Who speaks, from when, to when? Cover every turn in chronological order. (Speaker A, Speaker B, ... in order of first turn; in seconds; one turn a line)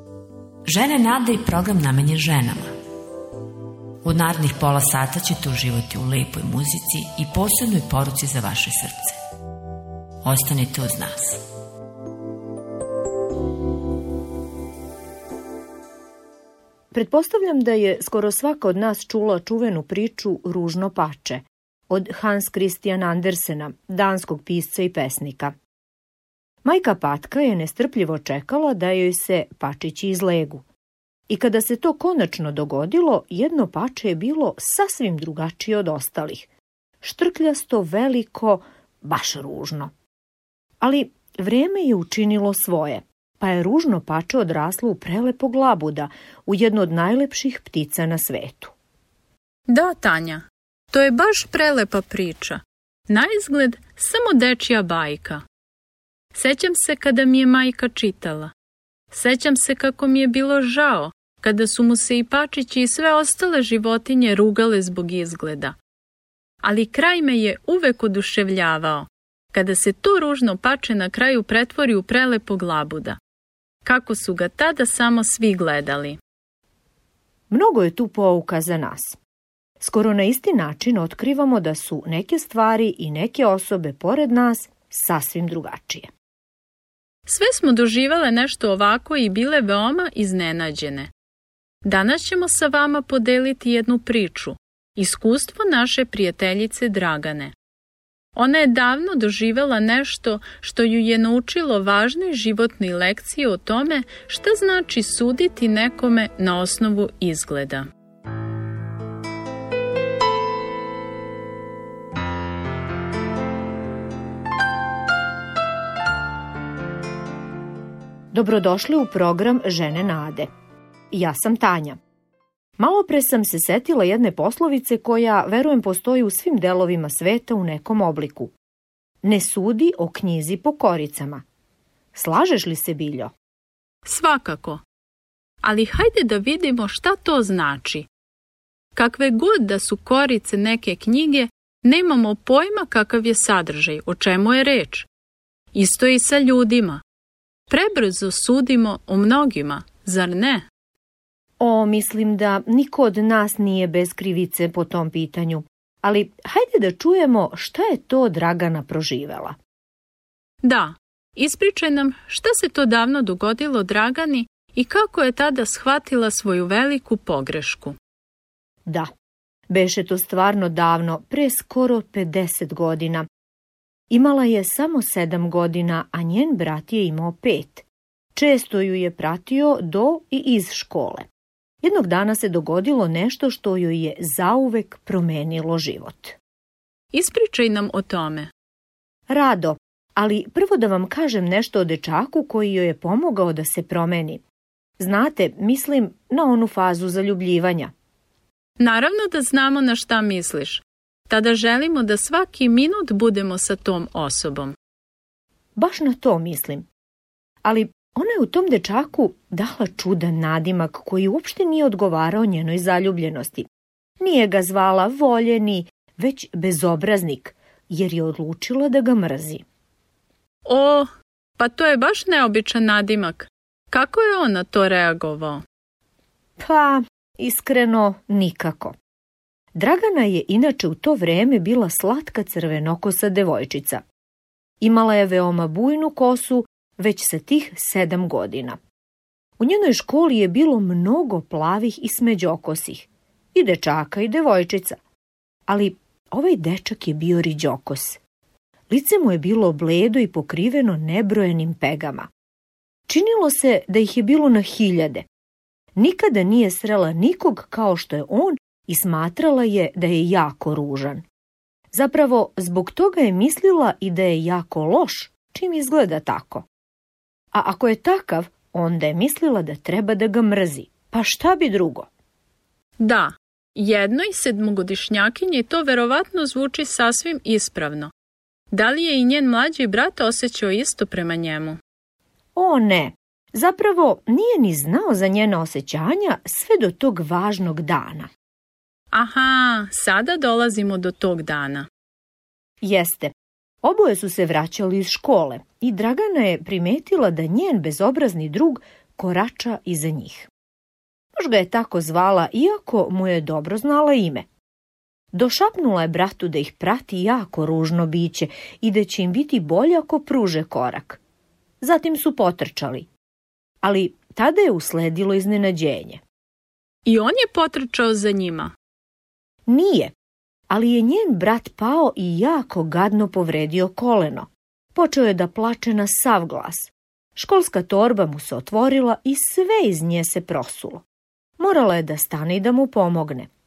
Speaker A: 0.6-2.7
Speaker A: 4.0-9.2
Speaker A: 10.2-11.4
Speaker B: 16.9-25.5
Speaker B: 26.6-30.6
Speaker B: 31.3-36.5
Speaker B: 37.0-39.9
Speaker B: 40.8-48.7
Speaker C: 49.7-55.4
Speaker C: 56.3-58.5
Speaker C: 59.1-65.8
Speaker C: 66.6-73.2
Speaker C: 73.8-76.2
Speaker B: 77.5-79.2
Speaker B: 79.8-86.1
Speaker C: 87.3-91.1
Speaker C: 91.8-97.5
Speaker C: 98.3-107.9
Speaker B: 118.3-120.5
Speaker B: 121.1-122.0
Speaker B: 122.8-128.5
Speaker B: 129.2-131.4
Speaker B: 132.1-133.3
Speaker C: 134.0-134.8
Speaker C: 135.6-138.1
Speaker C: 138.9-145.1
Speaker C: 145.7-147.0
Speaker C: 147.7-150.6
Speaker B: 151.6-159.6
Speaker C: 160.6-167.9
Speaker B: 169.7-173.3
Speaker B: 174.1-181.3
Speaker B: 181.8-186.4
Speaker C: 187.1-188.5
Speaker B: 189.3-194.4
Speaker B: 195.0-197.9
Speaker C: 198.8-204.7
Speaker B: 205.8-206.9
Speaker B: 207.6-213.7
Speaker B: 214.2-219.6
Speaker C: 220.6-225.6
Speaker B: 226.6-228.9
Speaker B: 229.7-234.0
Speaker B: 234.8-238.8
Speaker B: 239.6-245.0
Speaker B: 245.7-248.2
Speaker B: 248.9-252.3
Speaker B: 253.1-255.2
Speaker B: 255.9-261.2
Speaker B: 261.9-266.6
Speaker B: 267.5-272.1
Speaker C: 273.0-278.1
Speaker C: 278.7-281.8
Speaker B: 282.5-288.3
Speaker C: 289.1-291.9
Speaker B: 292.8-300.5
Speaker B: 301.4-304.5
Speaker B: 305.3-311.2
Speaker B: 311.8-313.1
Speaker B: 313.8-316.2
Speaker C: 317.1-318.7
Speaker B: 319.7-320.1
Speaker B: 320.7-331.0
Speaker B: 331.6-333.5